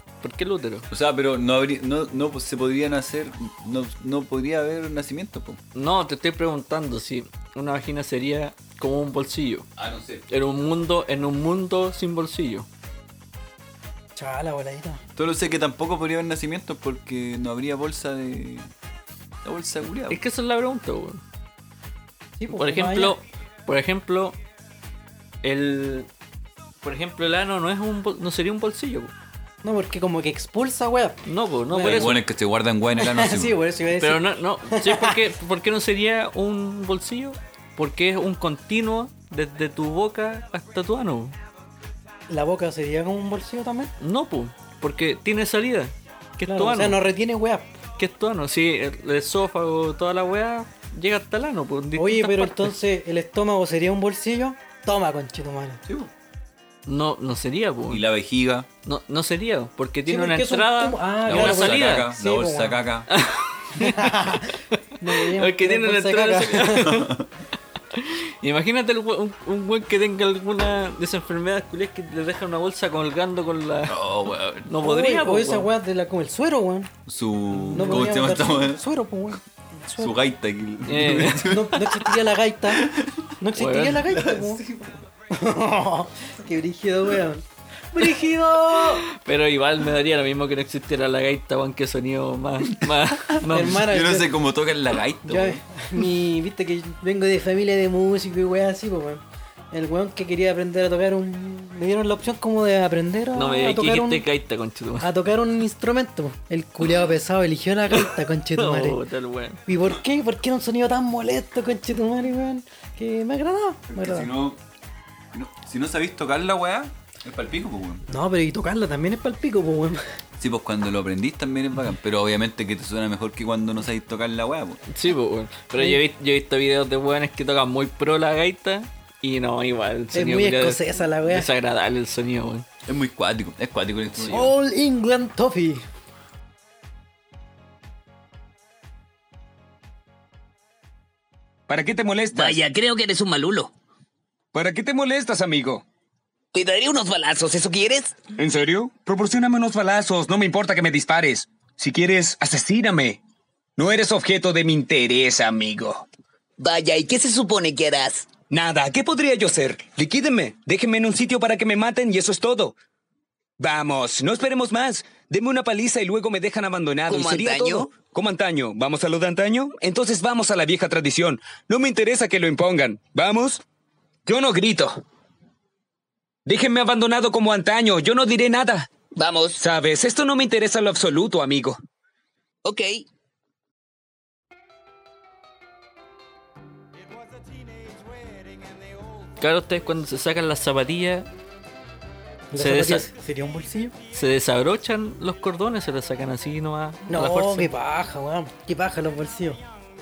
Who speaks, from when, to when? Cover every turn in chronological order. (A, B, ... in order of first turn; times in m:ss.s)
0:00.2-0:00.9 A
0:00.9-0:05.6 B
0:05.7-0:09.7 A
0:09.8-0:10.2 B
0:10.3-0:12.7 A
0:14.2-0:15.0 C
0:15.2-0:18.7 B
0:19.4-0:20.2 B
0:20.1-0:21.2 A
0:22.4-0:23.2 C
0:22.5-0:24.4 A
0:25.4-0:26.1 A
0:26.8-0:29.1 A
0:29.6-0:32.2 C
0:31.2-0:32.2 A
0:31.8-0:33.6 B
0:33.0-0:35.2 C
0:34.0-0:41.4 A
0:42.3-0:43.9 C
0:44.0-0:47.0 A
0:46.4-0:47.7 C
0:48.0-0:52.7 A
0:51.9-0:55.8 C
0:55.8-0:56.1 B
0:56.8-0:58.0 A
0:57.9-0:58.7 B
0:58.8-1:02.1 A
1:00.0-1:02.8 C
1:01.2-1:03.1 B
1:03.1-1:04.4 A
1:03.8-1:07.0 C
1:05.1-1:07.1 A
1:06.8-1:07.3 B
1:07.9-1:14.0 A
1:13.9-1:14.7 B
1:14.6-1:15.7 A
1:14.8-1:16.9 C
1:17.0-1:18.8 B
1:17.7-1:20.2 C
1:17.7-1:18.1 A
1:20.0-1:22.1 B
1:20.9-1:21.6 A
1:21.4-1:24.6 C
1:22.7-1:23.3 B
1:23.5-1:24.1 A
1:24.1-1:25.0 B
1:25.3-1:29.0 C
1:28.7-1:33.8 A
1:33.5-1:34.3 C
1:33.6-1:35.6 B
1:35.3-1:44.2 C
1:43.3-1:45.1 A
1:45.0-1:49.0 C
1:48.5-1:49.6 A
1:49.6-1:54.3 C
1:53.9-1:54.6 B
1:55.3-1:58.0 B
1:58.1-2:00.0 C
2:00.4-2:04.8 B
2:04.9-2:12.6 A
2:10.1-2:11.5 C
2:12.8-2:14.5 B
2:14.3-2:15.8 C
2:21.7-2:22.6 D
2:22.3-2:23.7 E
2:24.5-2:25.8 D
2:26.5-2:28.2 E
2:28.3-2:33.2 D
2:33.8-2:36.0 D
2:36.6-2:38.3 E
2:38.5-2:42.7 D
2:43.6-2:53.6 D
2:47.1-2:47.9 E
2:54.2-2:55.0 D
2:56.4-2:58.9 D
2:59.2-2:59.6 E
2:59.6-3:01.8 D
3:02.6-3:03.0 E
3:09.4-3:11.3 A
3:12.5-3:13.9 C
3:12.5-3:13.1 A
3:14.1-3:17.7 A
3:17.1-3:19.6 C